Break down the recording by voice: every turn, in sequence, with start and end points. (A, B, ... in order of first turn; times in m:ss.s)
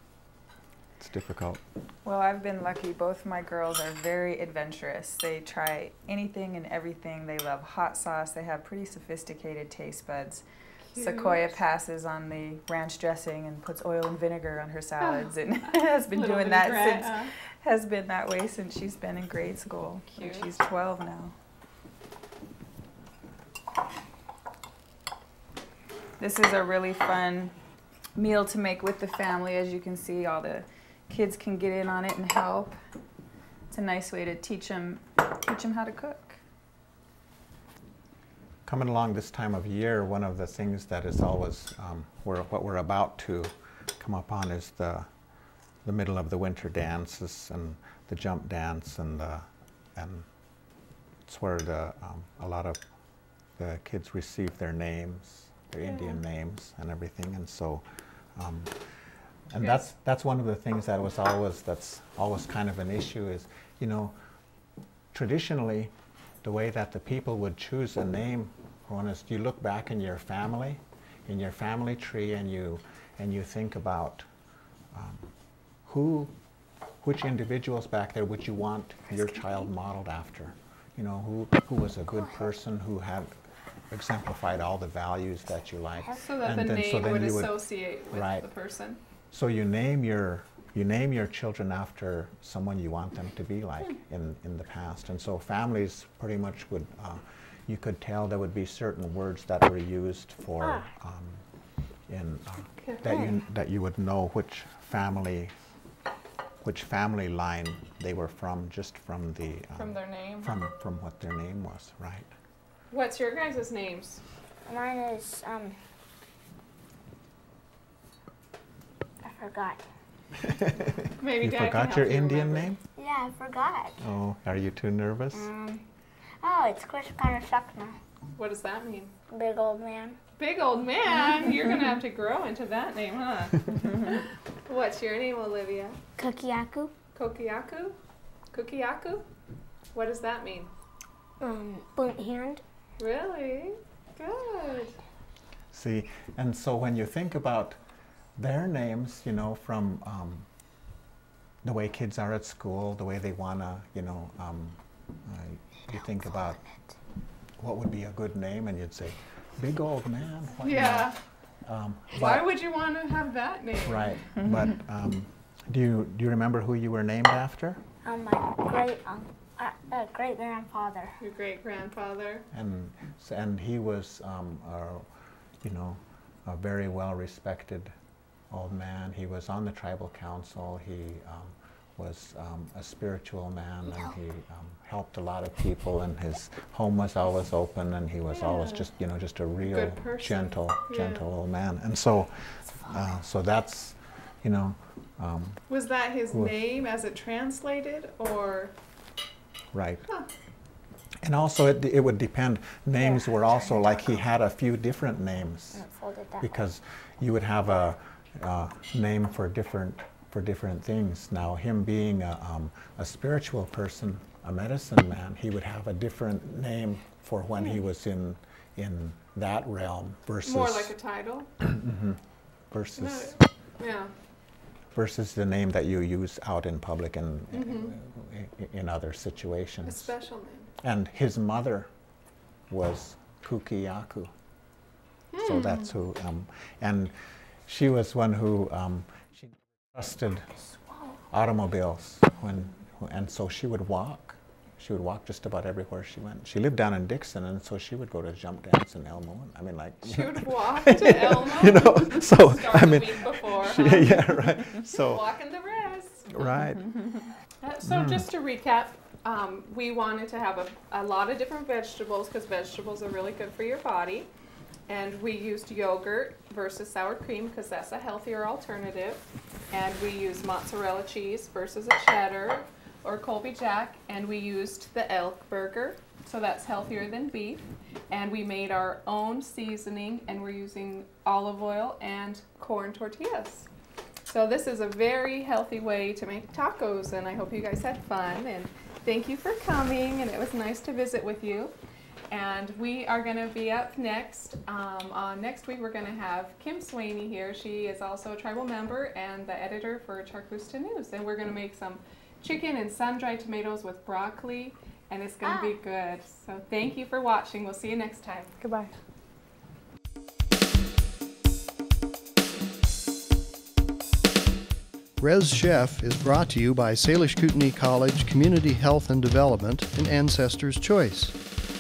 0:01.0-0:01.6 A
0:02.0-0:10.4 B
0:10.9-0:11.5 C
0:11.0-0:21.3 B
0:15.0-0:17.3 C
0:20.2-0:20.5 C
0:26.2-0:27.5 B
0:28.2-0:32.8 B
0:33.7-0:36.4 B
0:38.7-0:45.1 A
0:45.8-0:50.3 A
0:51.3-0:52.8 A
0:53.6-0:57.8 A
0:58.4-0:58.8 A
0:59.5-1:04.2 A
0:59.6-0:59.9 C
1:05.1-1:14.3 A
1:14.9-1:15.3 A
1:15.8-1:16.3 A
1:17.0-1:23.4 A
1:23.9-1:28.4 A
1:26.2-1:29.0 C
1:29.3-1:41.4 A
1:40.6-1:40.9 D
1:42.1-1:45.5 A
1:46.6-1:52.3 A
1:49.8-1:50.5 C
1:52.9-1:54.2 C
1:54.7-1:55.8 D
1:59.2-1:59.8 D
2:00.4-2:02.8 A
2:01.2-2:02.7 C
2:03.0-2:04.0 D
2:04.0-2:05.5 A
2:05.3-2:05.8 D
2:06.4-2:08.0 D
2:08.4-2:09.2 C
2:09.3-2:10.2 D
2:10.4-2:16.0 C
2:16.2-2:16.9 D
2:17.2-2:18.0 C
2:18.5-2:19.2 C
2:19.9-2:20.7 C
2:21.4-2:22.6 D
2:23.0-2:25.0 C
2:25.7-2:27.8 A
2:28.4-2:30.5 A
2:31.6-2:36.6 A
2:37.6-2:42.5 A
2:40.6-2:41.2 C
2:42.1-2:44.2 C
2:43.8-2:47.8 A
2:48.0-2:51.2 D
2:51.2-2:52.5 C
2:52.5-2:55.1 A
2:55.6-2:57.9 A
2:58.5-3:15.6 A
3:08.3-3:08.9 C
3:09.6-3:11.2 C
3:15.7-3:18.7 C
3:19.7-3:20.1 A
3:21.2-3:25.8 A
3:23.2-3:23.8 C
3:25.7-3:26.5 D
3:26.4-3:40.9 A
3:40.4-3:41.5 C
3:41.6-3:43.4 A
3:43.0-3:44.1 C
3:44.9-3:50.1 A
3:47.5-3:48.0 C
3:49.8-3:50.7 C
3:50.8-3:51.9 A
3:52.7-3:54.3 A
3:55.3-3:55.9 C
3:55.4-3:57.1 A
3:57.7-4:00.5 A
4:01.3-4:15.3 A
4:10.0-4:16.5 C
4:16.3-4:17.1 A
4:17.6-4:24.3 C
4:17.8-4:18.2 A
4:24.9-4:43.7 C
4:44.3-4:51.7 C
4:52.3-5:08.6 C
5:05.4-5:05.8 D
5:08.6-5:08.9 B
5:15.2-5:21.4 E